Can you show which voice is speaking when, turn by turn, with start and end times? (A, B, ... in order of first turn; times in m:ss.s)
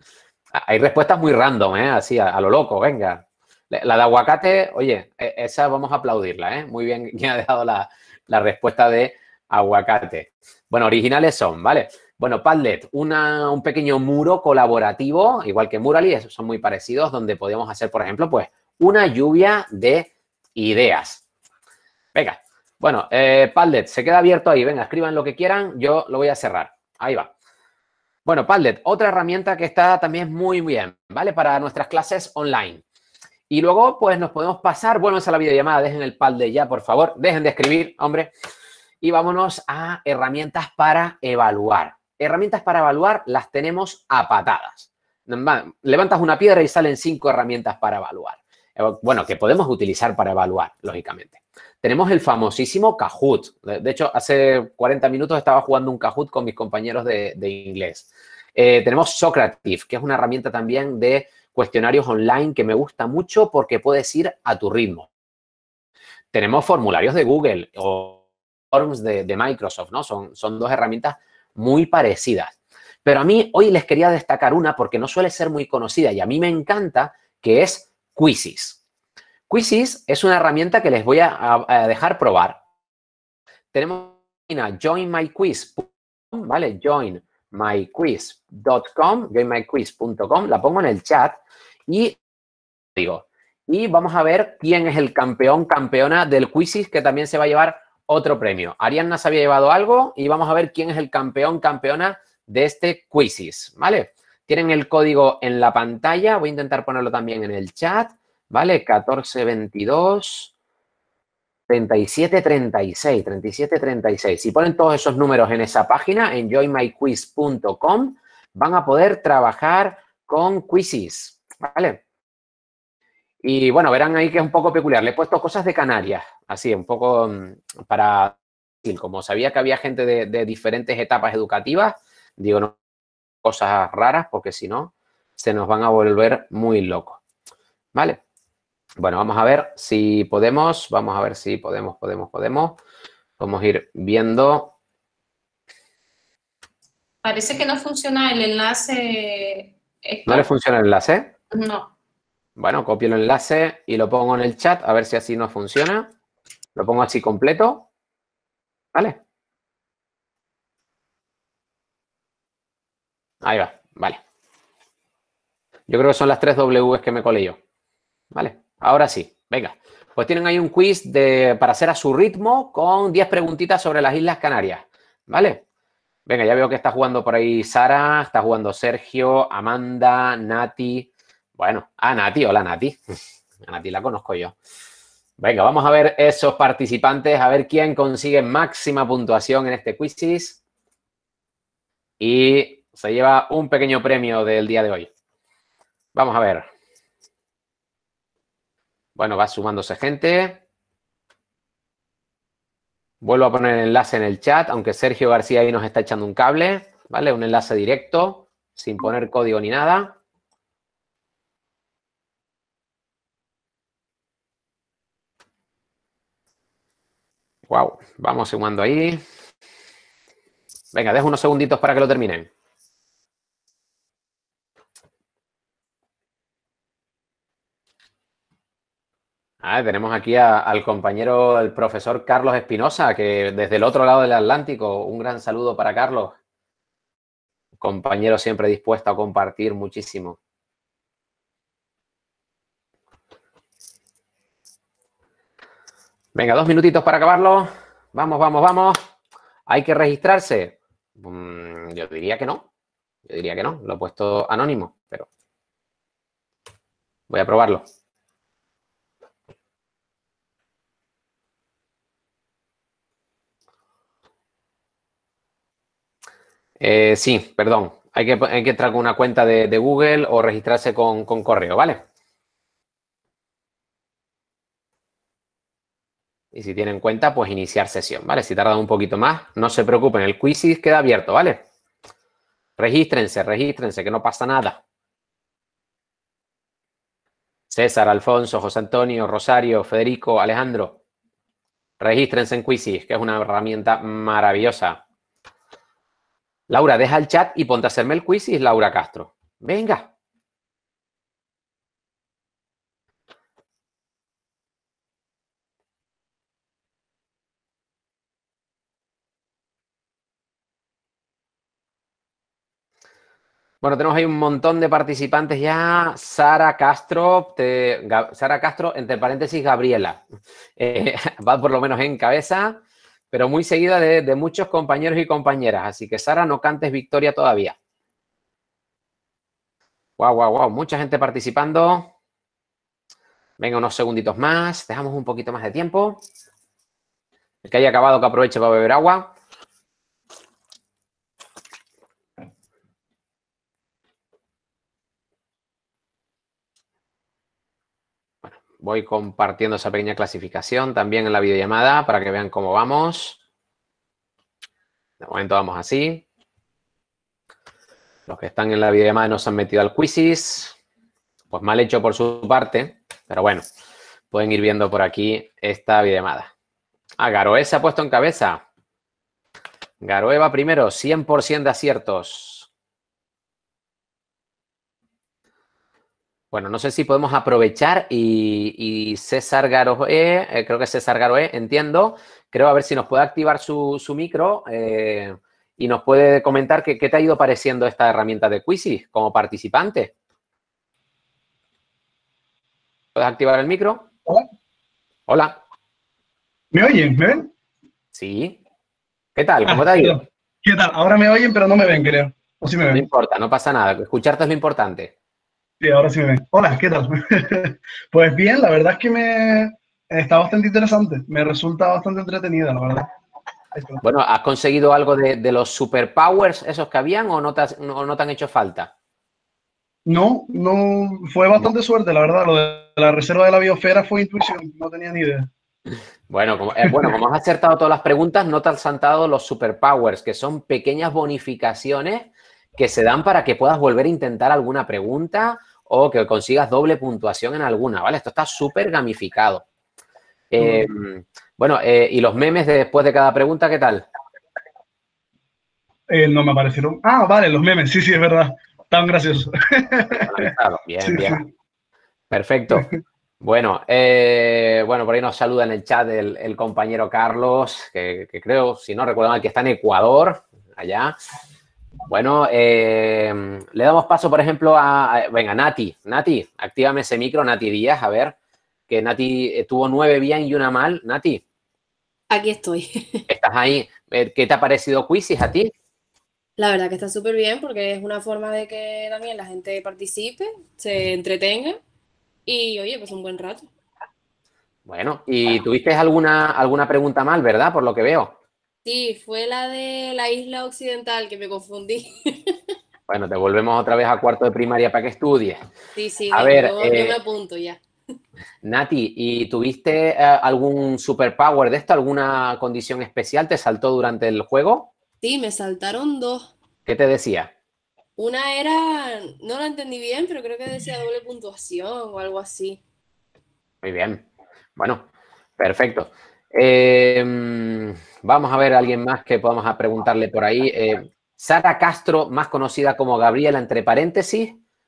0:00.5-0:21.2 A
0:22.1-0:27.3 A
0:28.2-0:32.8 A
0:33.5-0:38.3 A
0:39.0-1:05.1 A
1:06.3-1:18.8 A
1:19.5-1:22.6 A
1:23.7-1:32.2 A
1:33.0-1:50.5 A
1:51.7-2:02.0 A
2:03.4-2:12.8 A
2:13.4-2:17.2 A
2:17.9-2:18.2 A
2:19.0-2:22.8 A
2:23.4-2:24.7 A
2:27.2-2:30.5 B
2:30.2-2:31.3 A
2:31.5-2:31.9 B
2:32.6-2:36.1 A
2:36.7-2:37.9 A
2:43.4-2:44.2 A
2:45.9-2:47.6 A
2:48.3-2:55.6 A
2:56.3-3:03.0 A
3:03.6-3:04.5 A
3:05.4-3:10.6 A
3:12.2-3:15.1 A
3:16.1-3:16.7 A
3:19.2-3:20.6 A
3:23.2-3:30.2 A
3:37.7-3:39.2 A
3:40.9-3:42.5 A
3:49.6-3:56.3 A
3:57.8-4:00.4 A
4:06.3-4:09.0 A
4:09.7-4:12.6 A
4:13.3-4:15.3 A
4:17.3-4:17.8 A
4:26.8-4:32.0 A
4:36.5-4:41.6 A
4:42.8-4:44.8 A
4:47.7-4:51.0 A
4:52.0-4:55.0 A
4:56.7-5:00.1 A
5:13.8-5:20.2 A
5:20.8-5:27.8 A
5:30.2-5:32.1 A
5:33.6-5:36.2 A
5:37.6-5:39.3 A
5:48.4-5:53.4 A
5:55.2-5:56.2 A
5:58.3-6:00.7 A
6:01.5-6:03.6 A
6:04.3-6:06.5 A
6:07.2-6:08.6 A
6:10.0-6:12.7 A
6:16.5-6:30.1 A
6:33.1-6:34.1 A
6:35.3-6:35.6 A
6:36.7-6:37.5 C
6:38.1-6:38.6 A
6:39.4-6:40.2 A
6:39.7-6:43.0 C
6:42.9-6:45.1 A
6:45.8-6:53.1 C
6:54.0-6:58.9 A
7:00.0-7:05.5 C
7:06.3-7:19.6 A
7:20.5-7:24.0 A
7:20.6-7:20.8 C
7:26.1-7:30.4 C
7:30.2-7:31.4 A
7:31.0-7:31.4 C
7:32.3-7:32.9 A
7:33.4-7:41.1 A
7:42.1-7:48.3 A
7:48.9-7:51.4 A
7:52.3-7:53.2 D
7:53.3-7:55.7 A
7:56.6-8:01.8 D
8:02.4-8:03.7 D
8:04.8-8:08.4 A
8:08.8-8:12.6 D
8:13.1-8:15.6 A
8:16.0-8:17.8 D
8:16.3-8:17.2 A
8:18.6-8:24.9 A
8:25.2-8:26.5 D
8:26.8-8:27.5 A
8:28.2-8:32.8 D
8:33.8-8:34.2 A
8:34.8-8:35.0 A
8:35.6-8:44.6 A